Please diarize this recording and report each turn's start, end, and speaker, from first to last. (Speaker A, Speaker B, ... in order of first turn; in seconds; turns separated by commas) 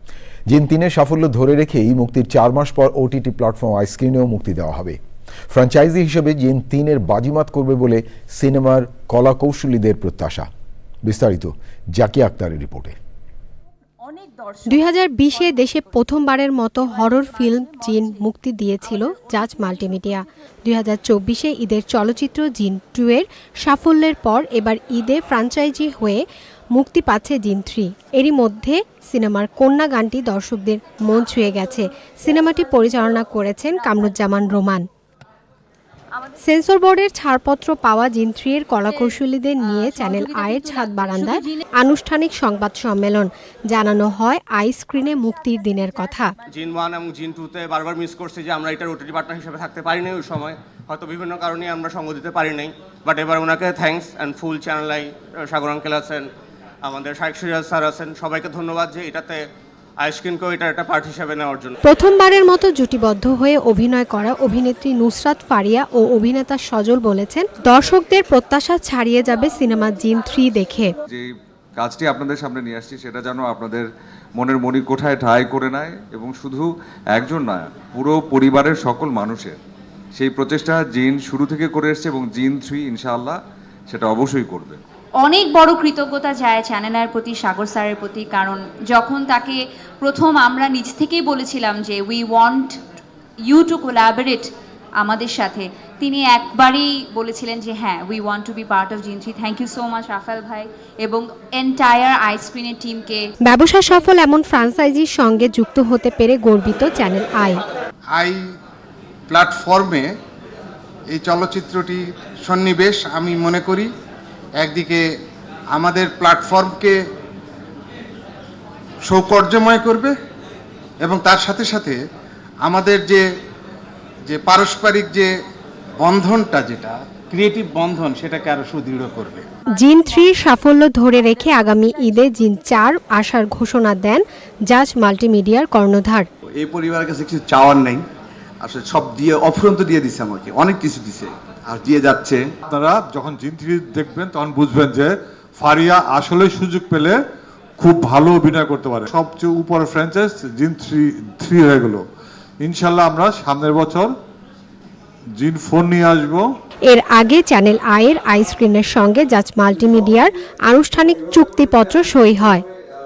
Speaker A: 0.5-5.0, Speaker A: 5.5-10.5, Speaker A: 11.0-12.9, Speaker B: 14.7-34.9, Speaker B: 36.4-46.3, Speaker C: 46.5-61.8, Speaker B: 61.8-70.9, Speaker D: 71.1-73.9, Speaker D: 74.4-79.6, Speaker D: 80.2-84.8, Speaker E: 85.2-103.3, Speaker B: 103.4-107.6, Speaker F: 109.3-110.1, Speaker F: 111.1-113.9, Speaker F: 114.6-115.0, Speaker F: 115.8-116.9, Speaker F: 119.1-120.1, Speaker F: 121.0-122.0, Speaker F: 122.7-123.2, Speaker F: 124.3-125.3, Speaker F: 126.0-127.0, Speaker G: 127.4-129.1, Speaker F: 127.9-129.4, Speaker B: 129.7-136.3, Speaker G: 136.5-138.1, Speaker G: 138.6-142.5, Speaker H: 142.7-147.2, Speaker H: 147.8-152.1, Speaker H: 152.6-154.1, Speaker H: 155.4-156.5, Speaker B: 156.9-162.6